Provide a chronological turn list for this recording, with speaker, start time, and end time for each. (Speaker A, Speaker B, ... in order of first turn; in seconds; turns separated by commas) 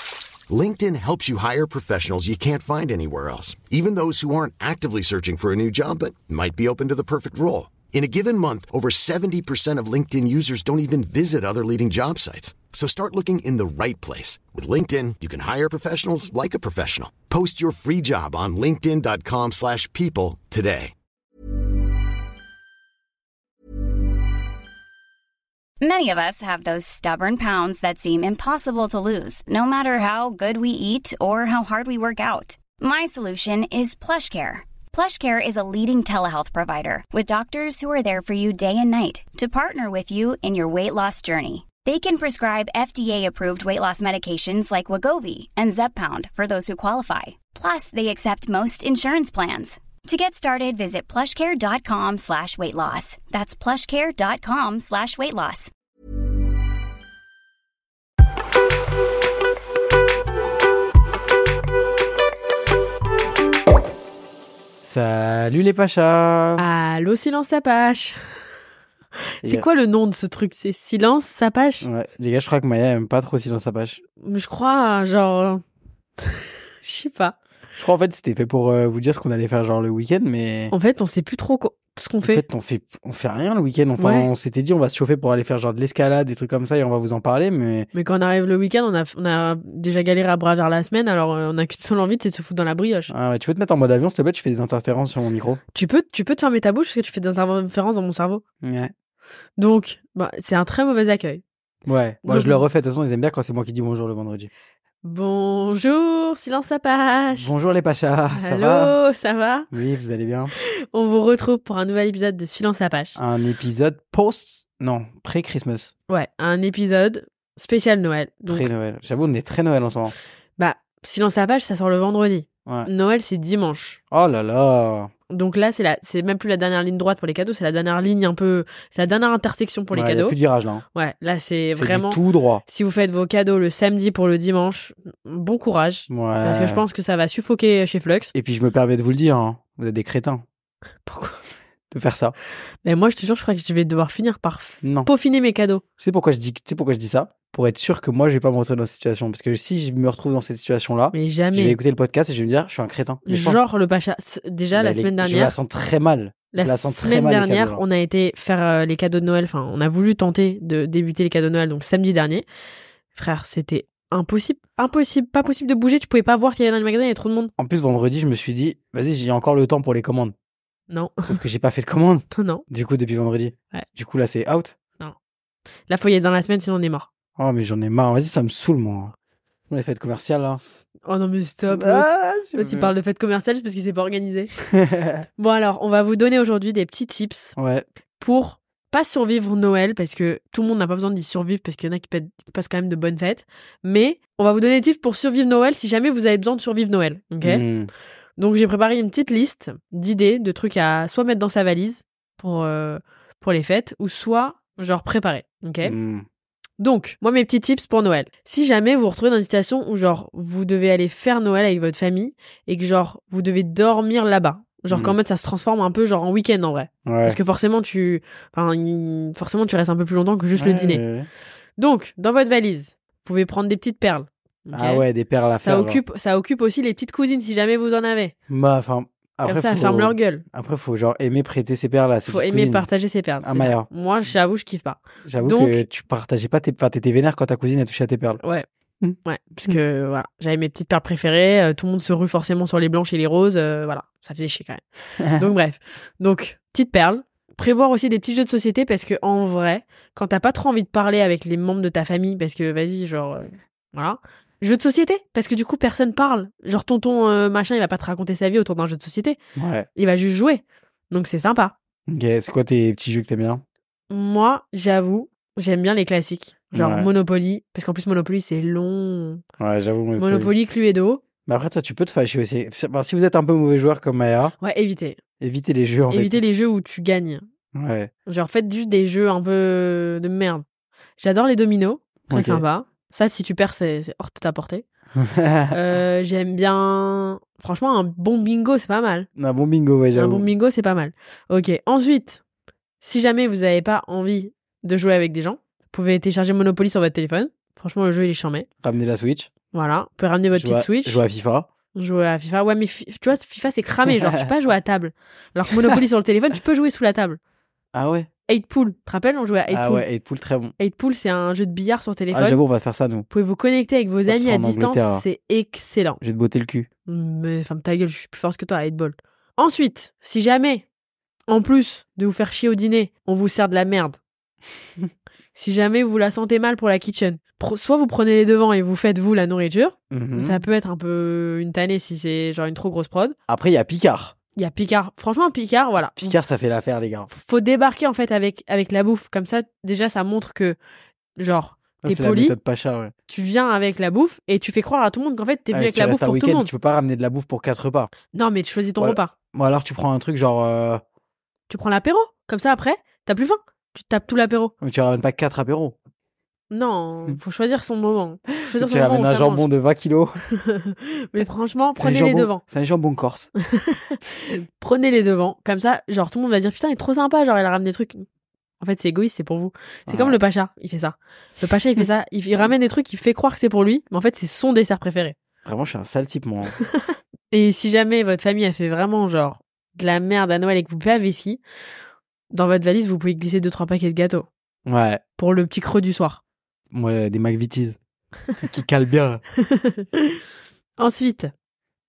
Speaker A: 0.5-20.9, Speaker B: 25.8-55.7, Speaker C: 64.8-66.6, Speaker D: 66.6-68.2, Speaker D: 69.4-71.9, Speaker C: 71.8-74.0, Speaker D: 74.2-75.6, Speaker D: 76.2-77.3, Speaker C: 77.8-80.7, Speaker D: 80.7-82.4, Speaker C: 82.2-87.9, Speaker D: 84.0-84.3, Speaker D: 87.9-93.1, Speaker C: 93.1-95.6, Speaker D: 95.7-98.4, Speaker C: 98.6-98.9, Speaker D: 99.6-101.4, Speaker C: 101.8-104.5, Speaker D: 102.2-102.6, Speaker D: 105.0-107.5, Speaker C: 107.3-109.0, Speaker D: 108.3-109.7, Speaker C: 109.7-110.5, Speaker D: 110.6-113.2, Speaker C: 113.2-115.9, Speaker D: 116.1-118.7, Speaker C: 118.5-120.1, Speaker D: 120.6-124.0, Speaker C: 124.1-125.1, Speaker D: 125.3-130.3, Speaker C: 129.9-130.8, Speaker D: 130.9-138.3, Speaker C: 131.8-132.6, Speaker C: 136.1-136.8, Speaker C: 138.3-140.4, Speaker D: 141.1-141.4, Speaker C: 141.9-142.3, Speaker D: 142.8-145.8, Speaker C: 144.8-145.1, Speaker C: 146.0-153.6, Speaker D: 151.1-151.8, Speaker D: 153.2-155.6, Speaker C: 154.8-157.8, Speaker D: 156.5-162.5, Speaker D: 163.1-167.5, Speaker C: 167.6-170.3, Speaker D: 170.9-171.3, Speaker C: 171.2-174.7, Speaker D: 172.3-172.6, Speaker D: 175.9-177.1, Speaker C: 177.4-179.1, Speaker C: 179.7-180.6, Speaker D: 181.0-184.5, Speaker C: 181.7-182.9, Speaker C: 184.7-185.2, Speaker D: 185.4-187.6, Speaker C: 187.6-187.8, Speaker D: 188.2-197.7, Speaker C: 197.4-197.9, Speaker D: 198.4-205.9, Speaker C: 205.8-206.2, Speaker D: 206.8-221.0, Speaker C: 214.9-215.2, Speaker C: 217.1-217.4, Speaker C: 220.6-221.3, Speaker D: 221.8-228.3, Speaker C: 224.7-226.0, Speaker C: 228.5-232.8, Speaker D: 229.4-230.4, Speaker D: 232.2-235.8, Speaker C: 233.4-233.9, Speaker C: 235.2-238.4, Speaker D: 238.4-238.7, Speaker C: 239.0-239.8, Speaker D: 239.2-244.8, Speaker C: 245.2-245.5, Speaker D: 245.3-259.4, Speaker C: 259.6-259.9, Speaker D: 259.9-261.7, Speaker C: 262.1-263.6, Speaker D: 264.1-269.4, Speaker C: 266.7-267.1, Speaker C: 269.6-270.5, Speaker D: 270.2-271.2, Speaker C: 271.4-274.5, Speaker D: 274.6-275.2, Speaker C: 275.4-276.4, Speaker D: 276.1-277.4, Speaker C: 277.7-278.1, Speaker D: 278.3-280.6, Speaker D: 281.2-284.8, Speaker C: 282.3-282.6, Speaker C: 285.1-285.8, Speaker D: 285.7-289.3, Speaker C: 289.4-290.5, Speaker D: 290.1-292.4, Speaker D: 293.0-298.7, Speaker C: 298.8-299.5, Speaker D: 299.7-301.2, Speaker C: 300.5-301.7, Speaker D: 301.9-307.4, Speaker C: 307.9-308.3, Speaker D: 308.5-310.1, Speaker C: 309.7-310.7, Speaker D: 310.8-312.6, Speaker C: 312.3-313.3, Speaker D: 313.3-316.2, Speaker C: 314.3-315.2, Speaker C: 316.2-316.9, Speaker D: 317.1-320.8, Speaker D: 321.5-324.2, Speaker D: 325.5-333.4, Speaker C: 330.1-330.6, Speaker C: 333.5-334.3, Speaker D: 334.6-336.4, Speaker C: 336.2-337.3, Speaker D: 337.3-340.8, Speaker D: 341.4-342.6, Speaker C: 342.0-343.1, Speaker D: 343.3-346.7, Speaker C: 345.7-348.1, Speaker D: 348.3-349.3, Speaker C: 349.0-351.0, Speaker D: 351.7-354.7, Speaker C: 354.8-356.0, Speaker D: 356.7-359.7, Speaker C: 358.6-360.4, Speaker D: 360.6-362.6, Speaker C: 361.9-363.5, Speaker D: 363.7-368.2, Speaker D: 368.8-375.3, Speaker C: 370.1-370.4, Speaker C: 375.6-376.8, Speaker D: 376.8-381.6, Speaker D: 382.5-384.5, Speaker C: 384.9-385.2, Speaker D: 385.4-386.4, Speaker C: 386.9-388.0, Speaker C: 388.5-389.4, Speaker D: 389.6-390.4, Speaker D: 391.0-391.5